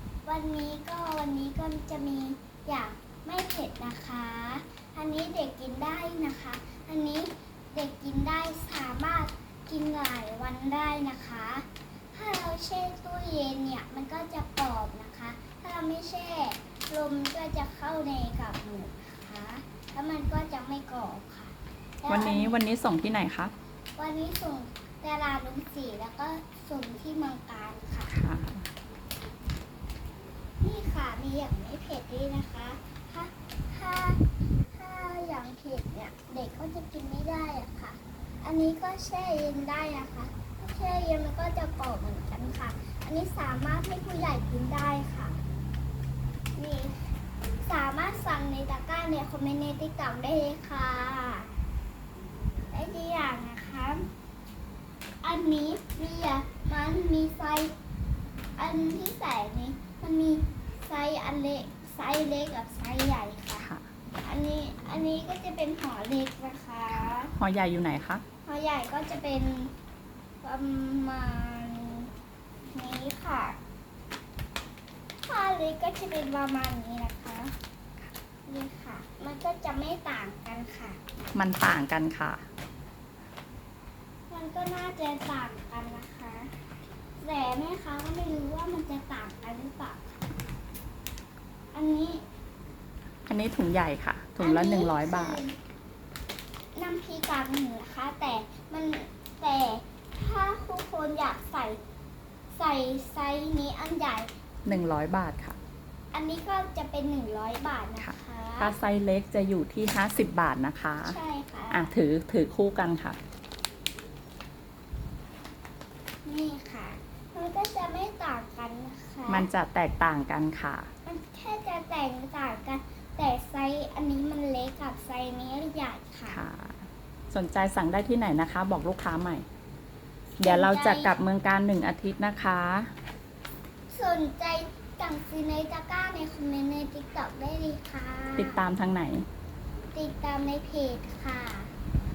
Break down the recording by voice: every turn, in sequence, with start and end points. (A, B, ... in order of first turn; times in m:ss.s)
0:00.3-0:22.6 A
0:22.1-0:23.5 B
0:24.0-0:28.2 A
0:28.1-0:28.7 B
0:30.6-0:45.4 A
0:46.6-0:47.1 A
0:47.6-0:51.5 A
0:52.7-0:54.1 A
0:55.2-0:57.7 A
0:58.6-1:03.7 A
1:03.6-1:03.9 B
1:04.2-1:07.3 A
1:07.0-1:08.2 B
1:08.4-1:09.7 A
1:10.4-1:12.1 A
1:12.7-1:13.6 A
1:15.3-1:17.5 A
1:18.5-1:21.0 A
1:21.4-1:22.5 B
1:24.3-1:26.5 A
1:27.2-1:30.2 A
1:31.7-1:32.2 A
1:33.3-1:35.4 B
1:34.4-1:35.6 A
1:36.8-1:41.8 A
1:42.5-1:44.7 A
1:44.6-1:45.6 B
1:46.1-1:48.8 A
1:48.0-1:51.2 B
1:51.0-1:51.9 A
1:51.7-1:53.2 B
1:56.2-1:59.5 A
1:59.3-2:00.9 B
2:01.0-2:06.4 A
2:06.3-2:09.4 B
2:10.4-2:12.9 B
2:10.4-2:11.1 A
2:13.9-2:18.6 A
2:18.4-2:19.3 B
2:19.9-2:21.7 A